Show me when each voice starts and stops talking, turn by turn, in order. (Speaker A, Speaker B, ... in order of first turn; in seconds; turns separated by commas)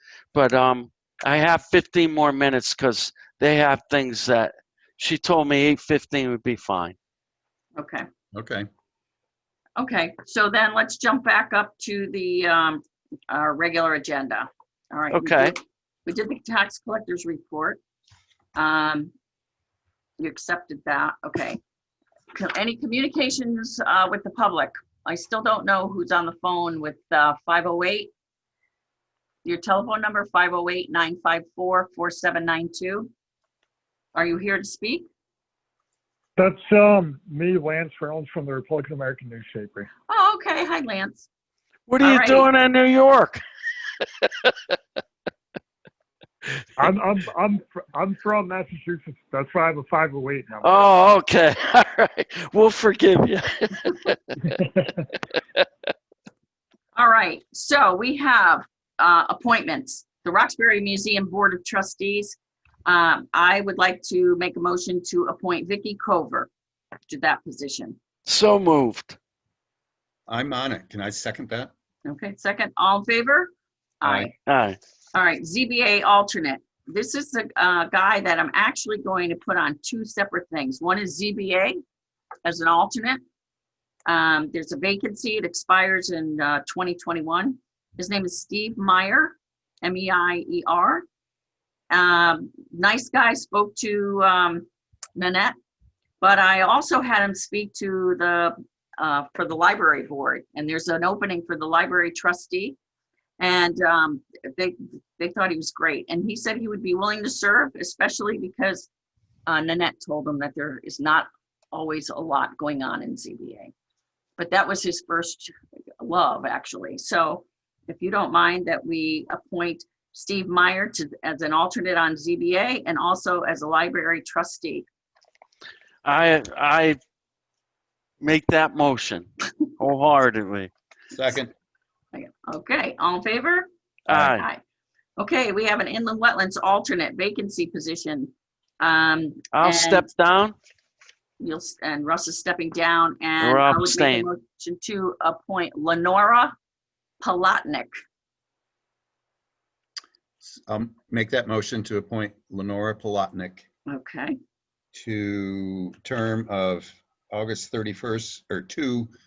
Speaker A: 0.3-7.0, Speaker B: 7.8-8.1, Speaker C: 8.3-8.7, Speaker B: 9.8-17.8, Speaker A: 15.1-15.6, Speaker B: 18.6-19.1, Speaker B: 20.2-21.6, Speaker B: 22.4-28.1, Speaker B: 29.4-33.1, Speaker B: 34.1-35.1, Speaker D: 36.4-39.9, Speaker B: 40.1-41.3, Speaker A: 41.9-43.4, Speaker B: 42.0-42.5, Speaker A: 44.2-44.5, Speaker D: 46.8-50.9, Speaker A: 50.6-55.6, Speaker B: 57.0-66.5, Speaker B: 67.1-68.0, Speaker A: 68.3-69.2, Speaker C: 70.3-71.7, Speaker B: 72.1-73.5, Speaker B: 74.0-74.3, Speaker C: 74.0-74.3, Speaker A: 74.5-74.8, Speaker B: 75.1-81.8, Speaker B: 82.5-83.2, Speaker B: 84.1-91.0, Speaker B: 91.9-95.6, Speaker B: 96.2-102.8, Speaker B: 103.4-108.9, Speaker B: 109.5-113.7, Speaker B: 114.4-124.9, Speaker A: 126.0-127.0, Speaker A: 128.2-129.3, Speaker A: 129.8-130.7, Speaker C: 131.1-131.5, Speaker B: 132.1-134.6, Speaker A: 134.1-134.4, Speaker B: 135.2-140.1, Speaker A: 139.5-140.6, Speaker B: 141.4-146.5, Speaker A: 143.4-144.3, Speaker B: 147.2-147.9, Speaker C: 150.4-153.7, Speaker B: 153.9-154.4, Speaker C: 154.9-159.1